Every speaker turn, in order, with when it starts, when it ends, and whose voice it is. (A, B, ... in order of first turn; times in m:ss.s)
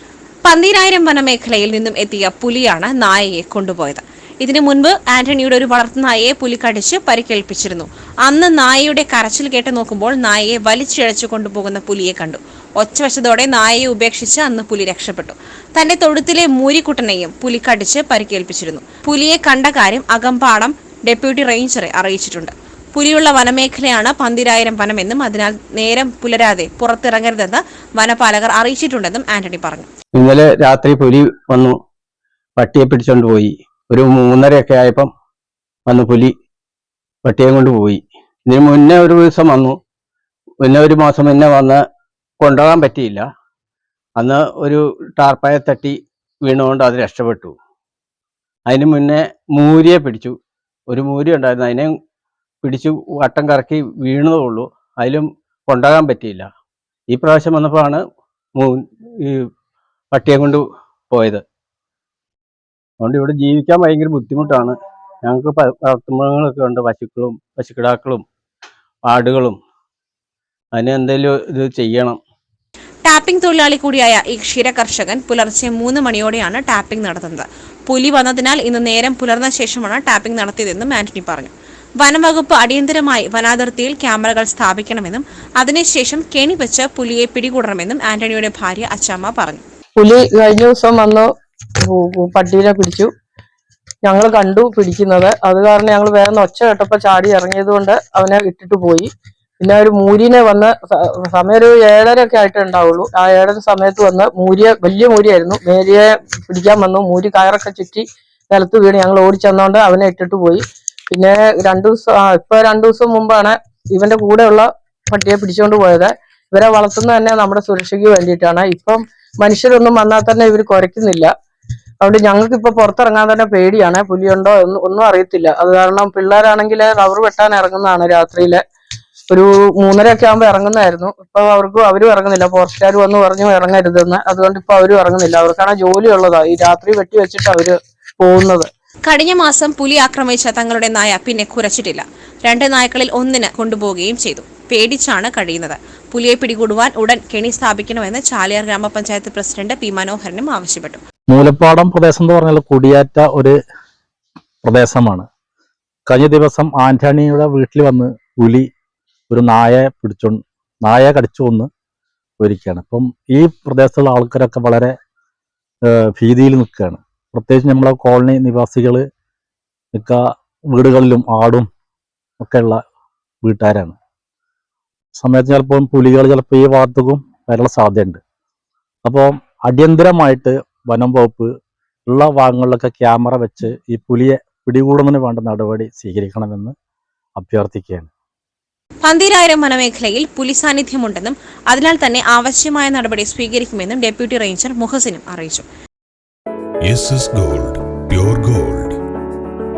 0:00.4-0:29.9 A
0:30.1-0:31.8 B
0:32.6-0:35.1 B
0:35.9-0:36.3 B
0:37.2-0:39.8 B
0:40.6-0:41.8 B
0:42.4-0:43.3 B
0:44.2-0:47.5 B
0:48.7-0:50.4 B
0:50.9-0:51.9 B
0:52.6-0:56.5 B
0:57.1-0:58.0 B
0:58.6-0:59.5 B
1:00.1-1:01.4 B
1:03.0-1:08.2 B
1:09.0-1:09.6 B
1:10.7-1:12.2 B
1:13.0-1:29.6 A
1:30.0-1:31.3 C
1:31.8-1:33.1 C
1:34.0-2:01.3 C
2:02.0-2:08.6 C
2:09.3-2:18.7 C
2:19.1-2:31.0 A
2:31.3-2:33.6 D
2:34.6-2:35.3 D
2:36.1-2:38.7 D
2:39.3-2:41.7 D
2:42.4-2:44.9 D
2:45.8-2:49.0 D
2:49.9-2:51.7 D
2:52.4-2:52.8 D
2:53.4-2:54.0 D
2:55.2-2:58.2 D
2:59.0-3:01.5 D
3:02.1-3:06.7 D
3:07.4-3:08.1 D
3:09.0-3:15.6 A
3:16.8-3:19.0 E